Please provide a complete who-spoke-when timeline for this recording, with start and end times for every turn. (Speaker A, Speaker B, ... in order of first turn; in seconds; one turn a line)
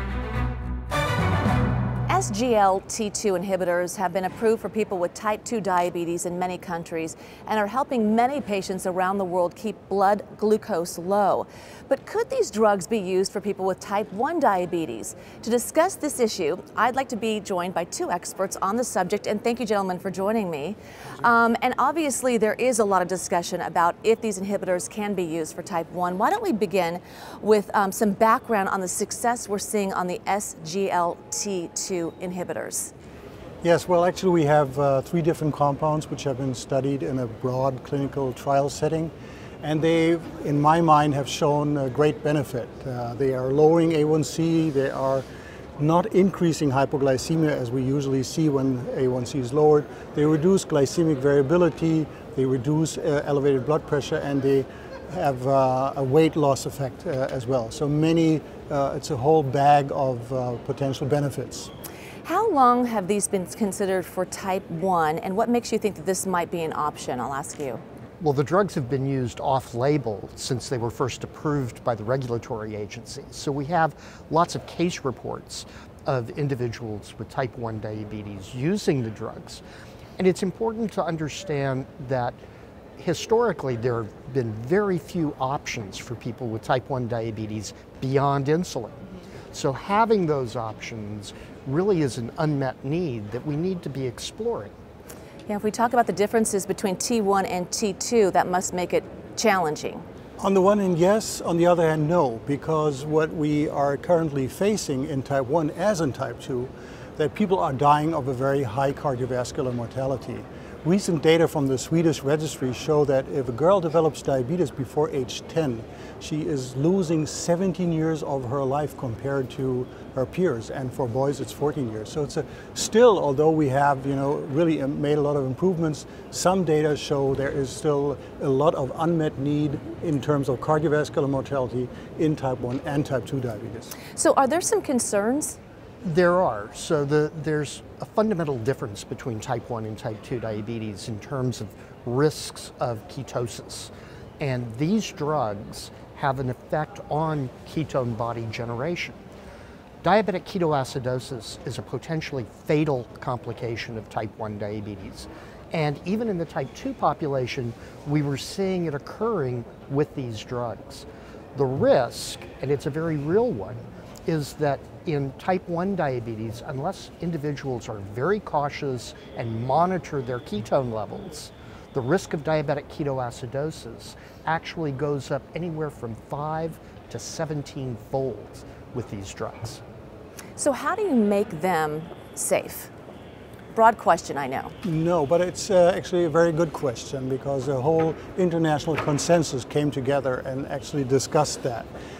Speaker A: 2.1-32.9
Speaker B: 33.6-45.2
Speaker B: 45.8-61.7
Speaker A: 62.2-67.8
Speaker C: 68.2-79.6
Speaker C: 80.2-82.4
Speaker C: 83.0-94.7
Speaker A: 95.5-100.0
Speaker B: 100.4-134.0
Speaker A: 134.1-135.6
Speaker C: 136.0-149.2
Speaker C: 150.0-179.8
Speaker A: 180.6-182.9
Speaker A: 183.7-184.8
Speaker B: 184.8-191.9